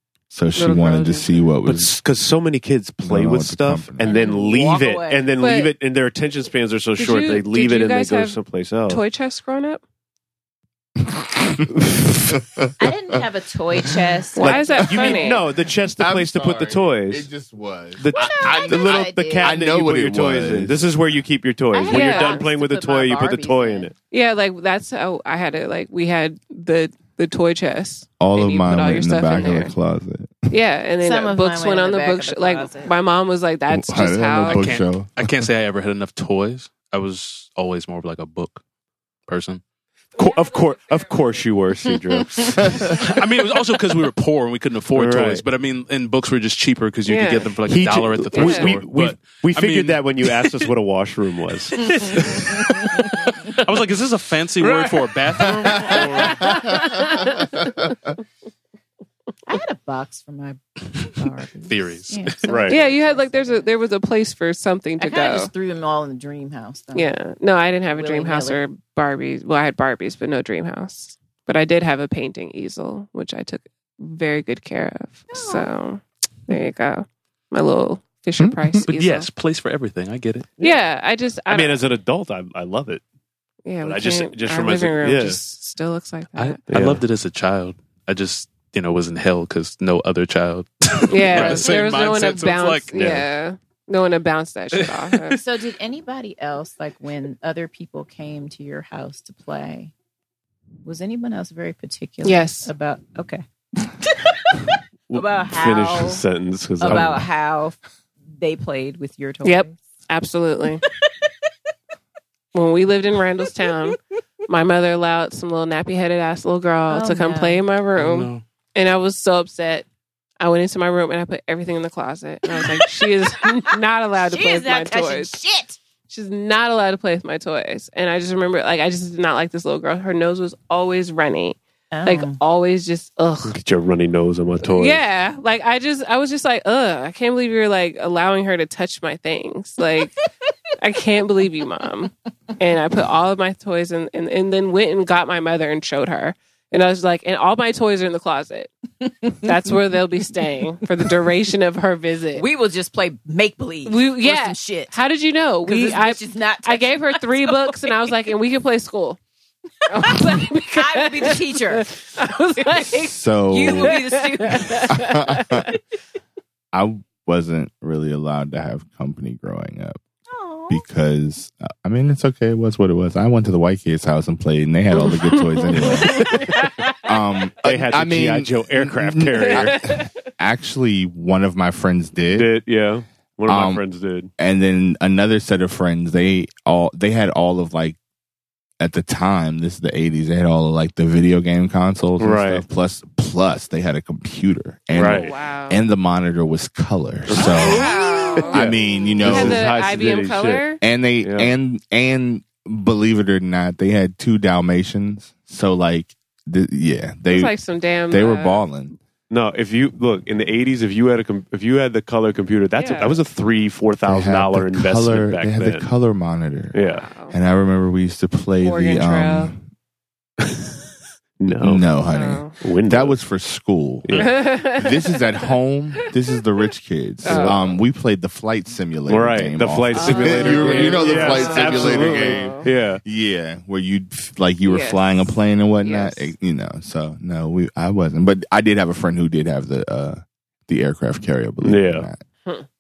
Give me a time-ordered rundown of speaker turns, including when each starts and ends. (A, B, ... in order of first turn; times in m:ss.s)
0:00.3-0:01.9 A
0:00.6-0:01.4 B
0:01.6-0:09.0 C
0:03.0-0:04.1 A
0:04.0-0:05.3 D
0:05.4-0:05.7 B
0:07.0-0:09.8 B
0:11.0-0:13.2 A
0:12.8-0:15.2 D
0:14.3-0:15.5 B
0:14.4-0:17.3 C
0:16.0-0:21.0 A
0:18.0-0:23.9 C
0:18.1-0:19.6 D
0:21.7-0:23.9 D
0:21.9-0:22.5 B
0:24.1-0:29.7 B
0:28.2-0:30.5 A
0:30.5-0:34.7 B
0:31.0-0:32.9 D
0:33.7-0:35.1 A
0:34.5-0:38.6 E
0:39.3-0:39.6 E
0:40.2-0:42.8 C
0:42.6-0:43.0 A
0:42.9-0:50.1 E
0:44.9-0:45.4 C
0:47.1-0:47.5 B
0:47.7-0:52.2 C
0:48.3-0:48.7 B
0:51.8-0:56.6 E
0:56.2-0:57.5 B
0:59.5-1:03.7 D
1:01.7-1:02.5 E
1:02.5-1:02.8 C
1:02.6-1:05.5 B
1:05.0-1:07.1 D
1:06.9-1:19.3 B
1:07.9-1:08.6 D
1:15.3-1:15.7 D
1:18.4-1:18.8 A
1:18.8-1:20.5 E
1:20.6-1:21.8 B
1:21.5-1:23.0 C
1:23.6-1:26.6 B
1:23.8-1:25.4 C
1:26.4-1:33.3 E
1:26.7-1:27.0 C
1:31.1-1:35.4 B
1:31.4-1:31.6 C
1:34.7-1:35.3 E
1:35.3-1:39.9 D
1:40.8-1:46.2 D
1:42.2-1:42.7 B
1:45.1-1:47.2 C
1:46.8-1:47.8 D
1:48.4-1:49.8 D
1:49.4-1:50.8 B
1:52.5-1:54.0 B
1:54.5-1:59.9 B
1:56.9-1:57.6 D
1:58.0-1:58.4 E
2:00.4-2:05.4 B
2:02.5-2:03.0 D
2:04.2-2:05.8 D
2:06.1-2:13.6 B
2:11.9-2:12.4 D
2:13.4-2:15.0 C
2:14.7-2:20.1 B
2:20.8-2:28.7 B
2:29.4-2:32.5 B
2:32.3-2:34.9 D
2:33.8-2:39.2 B
2:35.6-2:38.1 D
2:39.9-2:45.8 B
2:40.0-2:41.9 D
2:42.9-2:44.0 A
2:43.5-2:44.9 D
2:44.9-2:45.7 A
2:46.7-2:50.0 A
2:50.3-2:50.8 D
2:50.7-2:56.4 A
2:55.0-2:57.0 B
2:57.0-3:02.5 A
2:57.6-2:59.8 C
2:59.4-3:00.1 B
3:02.4-3:04.3 C
3:03.5-3:03.8 A
3:04.4-3:08.0 A
3:08.8-3:17.9 A
3:12.2-3:12.6 C
3:14.9-3:15.3 C
3:15.0-3:15.8 B
3:17.3-3:20.7 C
3:17.4-3:20.8 B
3:18.5-3:20.0 A
3:20.8-3:27.6 A
3:21.2-3:21.5 C
3:27.3-3:28.7 B
3:28.1-3:29.0 A
3:29.3-3:35.9 C
3:32.8-3:33.2 B
3:34.1-3:36.8 A
3:36.7-3:37.1 C
3:36.9-3:37.4 B
3:37.3-3:39.6 A
3:38.6-3:39.5 B
3:41.4-3:41.9 C
3:41.6-4:02.2 A
3:42.1-3:42.6 B
3:42.6-3:43.2 C
3:44.0-3:44.3 C
3:44.1-3:46.1 B
3:47.2-3:47.8 C
3:47.2-3:47.8 B
3:49.1-3:53.0 C
3:50.0-3:52.7 B
3:54.6-3:56.3 B
4:01.6-4:02.1 C